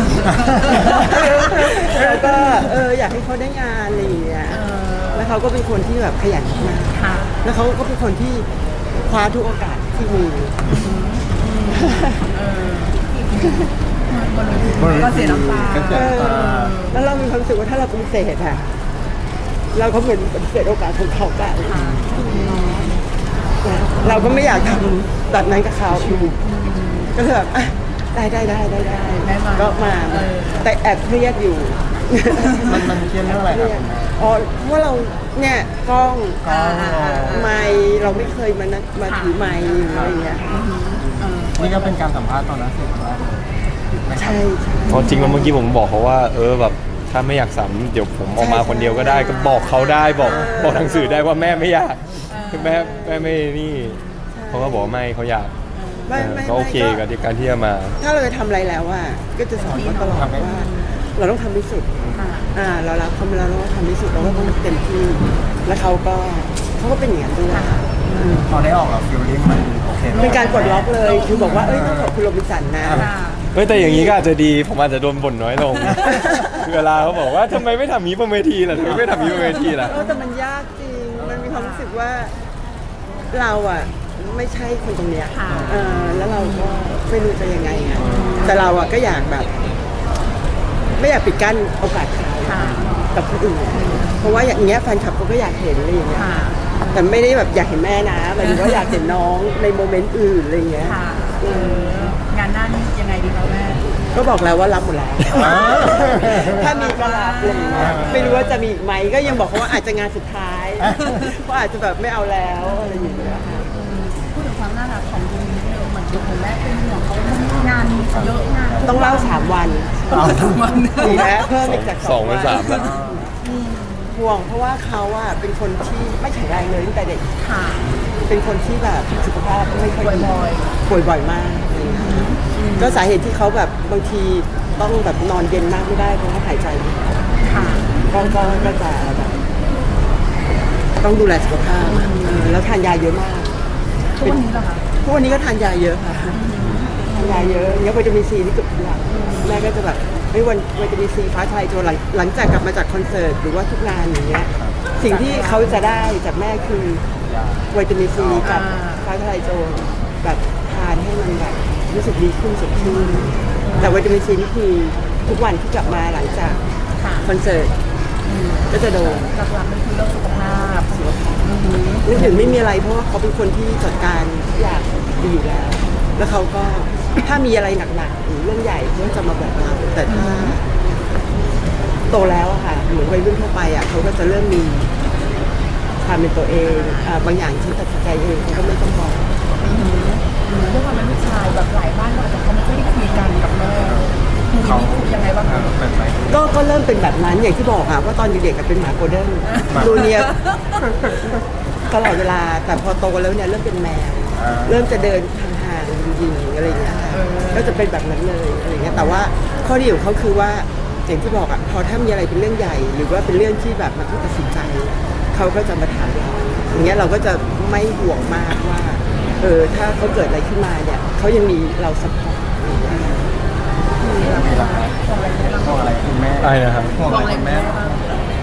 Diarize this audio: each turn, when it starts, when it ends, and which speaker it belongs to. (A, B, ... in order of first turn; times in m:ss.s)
0:00.2-0:00.9 A
0:00.5-0:01.0 B
0:00.7-0:10.7 C
0:03.9-0:04.2 A
0:04.5-0:05.4 B
0:06.9-0:07.3 B
0:10.8-0:17.3 B
0:11.7-0:12.3 C
0:13.3-0:13.7 C
0:14.6-0:16.9 A
0:15.9-0:18.7 C
0:19.7-0:22.5 C
0:21.6-0:23.0 B
0:21.8-0:22.2 A
0:23.6-0:26.4 C
0:24.0-0:24.8 B
0:25.9-0:26.4 A
0:26.4-0:27.1 B
0:27.1-0:36.4 C
0:29.2-0:30.7 B
0:32.4-0:32.7 B
0:32.6-0:34.2 A
0:36.4-0:37.5 A
0:36.4-0:37.9 B
0:37.2-0:40.6 C
0:39.1-0:42.0 B
0:39.9-0:40.2 A
0:41.0-0:43.4 A
0:44.0-0:44.4 A
0:44.2-0:45.5 C
0:44.9-0:45.5 B
0:44.9-0:54.0 D
0:48.4-0:49.4 C
0:49.0-0:51.5 B
0:50.3-0:51.2 C
0:52.3-0:53.1 B
0:52.6-0:53.4 C
0:53.7-0:54.2 B
0:54.3-0:55.0 C
0:54.5-0:55.5 D
0:55.7-0:56.4 B
0:56.1-0:57.0 C
0:56.1-0:58.0 D
0:58.0-1:02.0 C
0:59.6-1:01.0 B
1:00.1-1:00.5 A
1:02.0-1:02.3 A
1:02.1-1:02.5 B
1:02.5-1:08.5 C
1:04.2-1:04.6 B
1:07.5-1:08.5 B
1:08.5-1:12.2 A
1:10.1-1:11.8 B
1:10.2-1:13.1 C
1:12.8-1:13.1 A
1:12.9-1:13.5 B
1:13.5-1:20.0 D
1:13.7-1:14.2 C
1:16.0-1:16.6 C
1:18.8-1:19.5 A
1:19.7-1:20.2 B
1:19.8-1:22.4 C
1:21.1-1:21.5 A
1:21.5-1:21.9 B
1:23.3-1:29.5 C
1:25.3-1:26.8 B
1:25.4-1:26.3 A
1:27.9-1:28.5 A
1:28.1-1:28.7 B
1:31.0-1:36.3 C
1:32.4-1:33.1 B
1:32.6-1:33.0 A
1:33.7-1:34.3 B
1:36.2-1:37.0 B
1:36.9-1:42.2 C
1:38.4-1:39.0 B
1:40.8-1:43.8 B
1:44.0-1:53.7 C
1:45.4-1:46.6 A
1:45.4-1:48.3 B
1:47.7-1:48.6 A
1:50.8-1:51.2 A
1:52.6-2:01.4 B
1:57.5-1:59.1 A
1:58.8-2:03.4 C
2:00.1-2:01.2 A
2:01.6-2:03.0 D
2:02.5-2:03.3 A
2:03.4-2:04.2 B
2:04.1-2:07.3 C
2:07.4-2:07.9 B
2:07.8-2:08.2 A
2:08.3-2:17.2 C
2:10.0-2:10.8 B
2:11.9-2:13.0 B
2:17.4-2:18.8 B
2:17.6-2:18.1 A
2:18.0-2:19.4 C
2:21.0-2:23.5 C
2:21.8-2:22.5 B
2:24.2-2:24.8 B
2:25.0-2:26.5 C
2:26.3-2:27.8 B
2:27.1-2:37.2 C
2:29.1-2:29.7 B
2:34.5-2:34.8 A
2:35.0-2:36.2 B
2:37.2-2:38.5 A
2:37.7-2:46.6 C
2:38.4-2:39.1 B
2:42.8-2:44.0 B
2:47.0-2:47.3 B
2:47.2-2:47.8 C
2:48.2-2:48.7 B
2:48.7-2:49.4 C
2:49.2-2:52.5 B
2:50.3-2:51.5 C
2:52.0-3:00.6 C
3:00.1-3:00.6 B
3:02.1-3:04.9 C
3:06.0-3:09.3 C
3:06.7-3:07.2 B
3:09.6-3:15.7 B
3:13.8-3:16.4 A
3:16.3-3:20.4 C
3:19.5-3:20.8 B
3:19.7-3:20.0 A
3:21.9-3:43.3 C
3:24.3-3:25.2 A
3:27.1-3:27.8 B
3:28.9-3:29.2 B
3:44.0-3:46.1 B
3:44.2-3:48.1 A
3:46.4-3:47.0 D
3:47.0-3:48.3 B